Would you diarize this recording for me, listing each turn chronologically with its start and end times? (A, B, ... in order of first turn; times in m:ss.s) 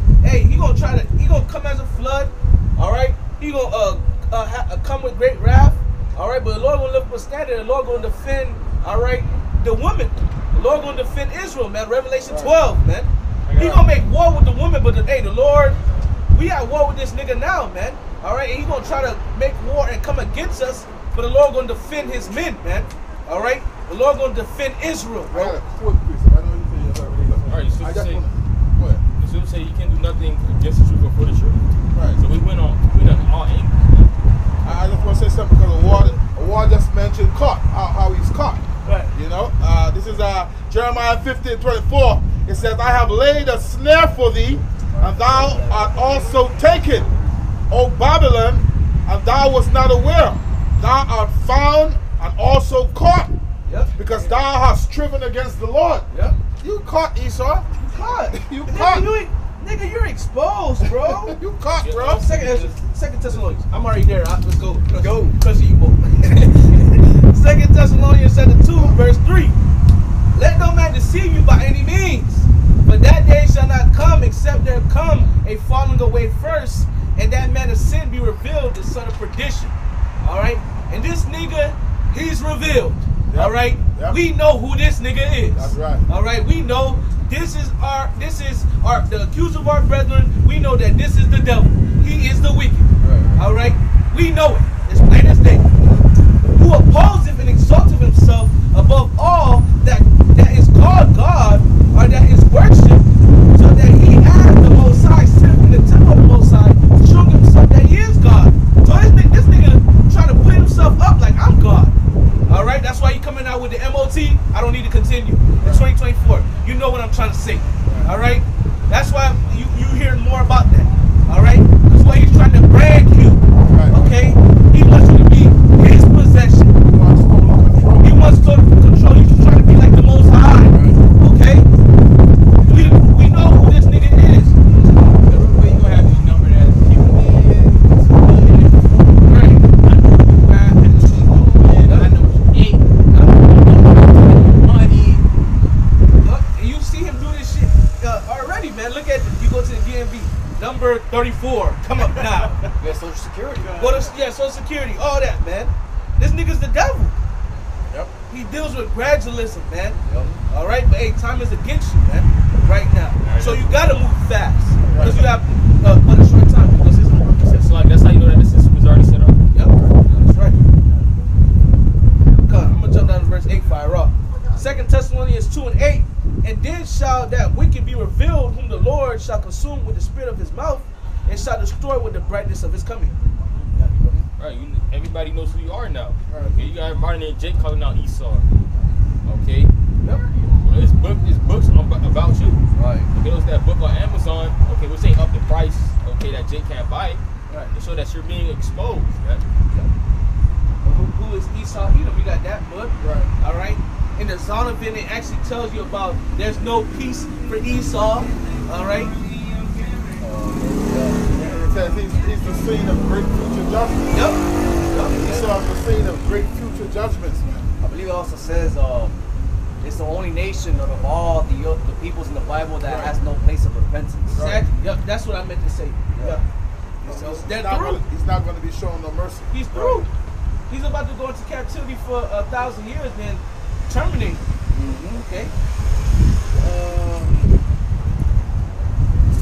0:00.2-0:15.8 A
0:12.3-0:12.6 B
0:13.5-0:13.9 C
0:16.3-0:25.6 A
0:25.3-0:29.0 B
0:27.5-0:28.2 D
0:29.2-0:31.6 D
0:31.9-0:32.2 B
0:32.2-0:34.2 D
0:34.6-0:47.1 B
0:38.8-0:39.1 A
0:44.9-0:47.3 E
0:47.7-0:53.4 B
0:53.7-0:53.9 A
0:53.9-0:56.1 B
0:56.1-0:56.4 A
0:56.6-0:57.7 B
0:57.8-1:01.4 A
0:58.3-0:59.2 B
1:00.8-1:02.2 B
1:01.8-1:02.3 D
1:02.0-1:09.6 A
1:02.4-1:02.7 C
1:05.0-1:05.4 E
1:10.3-1:35.7 A
1:23.3-1:24.2 B
1:25.6-1:26.1 B
1:33.0-1:33.4 B
1:36.6-1:52.0 A
1:52.5-2:06.8 A
1:55.6-1:55.9 B
1:57.8-1:58.1 B
2:03.6-2:04.2 B
2:06.8-2:08.2 B
2:08.0-2:11.7 A
2:10.7-2:11.0 B
2:12.6-2:14.9 A
2:15.2-2:25.2 C
2:19.2-2:19.7 A
2:21.8-2:22.2 A
2:26.2-2:32.6 A
2:32.0-2:32.7 C
2:32.8-2:33.8 E
2:33.6-2:34.2 C
2:33.7-2:37.1 A
2:38.3-2:47.7 A
2:40.1-2:40.4 E
2:43.2-2:43.8 D
2:44.9-2:45.3 B
2:47.5-2:49.4 D
2:49.5-2:50.6 A
2:52.4-3:03.2 A
3:03.8-3:04.1 E
3:04.4-3:08.5 D
3:06.3-3:06.6 B
3:09.2-3:09.7 D
3:10.4-3:17.2 D
3:12.7-3:13.1 E
3:17.7-3:19.5 D
3:20.8-3:29.2 A
3:23.0-3:23.3 B
3:30.2-3:31.3 E
3:31.4-3:34.2 B
3:34.1-3:35.5 A
3:35.1-3:37.5 B
3:37.8-3:39.2 E
3:39.8-3:44.4 E
3:42.8-3:43.2 B
3:44.3-3:44.6 B
3:44.4-3:46.4 A
3:46.1-3:46.4 E
3:47.0-3:49.5 B
3:47.1-3:48.0 A
3:47.1-3:47.4 E
3:49.5-3:50.1 A
3:49.7-3:50.1 E
3:50.7-3:54.4 A
3:54.7-3:55.3 E
3:55.2-3:55.5 A
3:56.6-3:57.4 E